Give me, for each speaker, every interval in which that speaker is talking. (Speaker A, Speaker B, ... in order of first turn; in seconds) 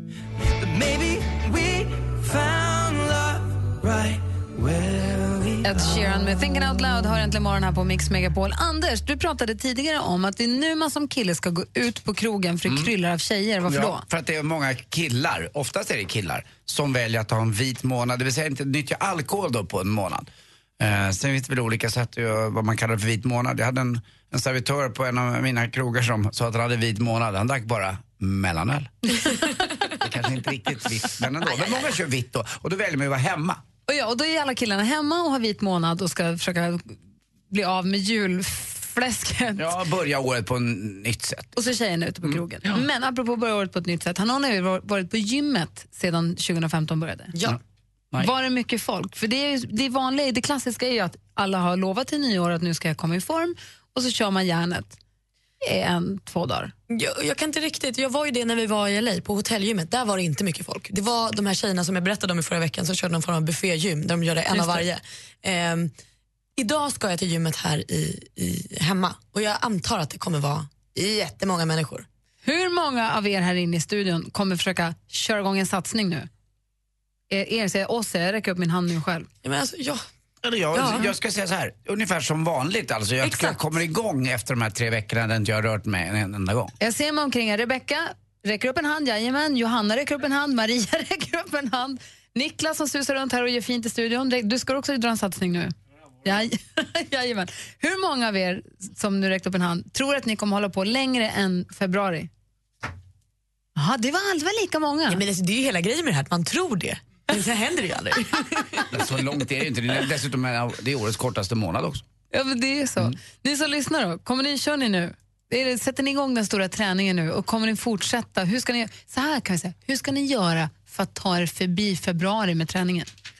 Speaker A: 0.6-6.1
Speaker B: 5.6-14.0, 33.9-37.0, 37.5-39.7, 41.5-47.3, 48.2-55.0, 55.6-56.7, 64.5-64.8, 72.4-76.3, 77.3-79.3, 86.8-102.3, 103.8-105.2, 112.3-123.1
Speaker C: 12.7-12.9, 13.7-20.3, 20.8-29.1, 30.0-33.6, 39.6-41.5, 42.2-42.8, 80.4-86.7, 108.9-112.0
Speaker D: 56.9-65.9, 66.6-72.0, 79.4-80.0, 80.7-81.1, 83.2-83.6, 105.1-108.9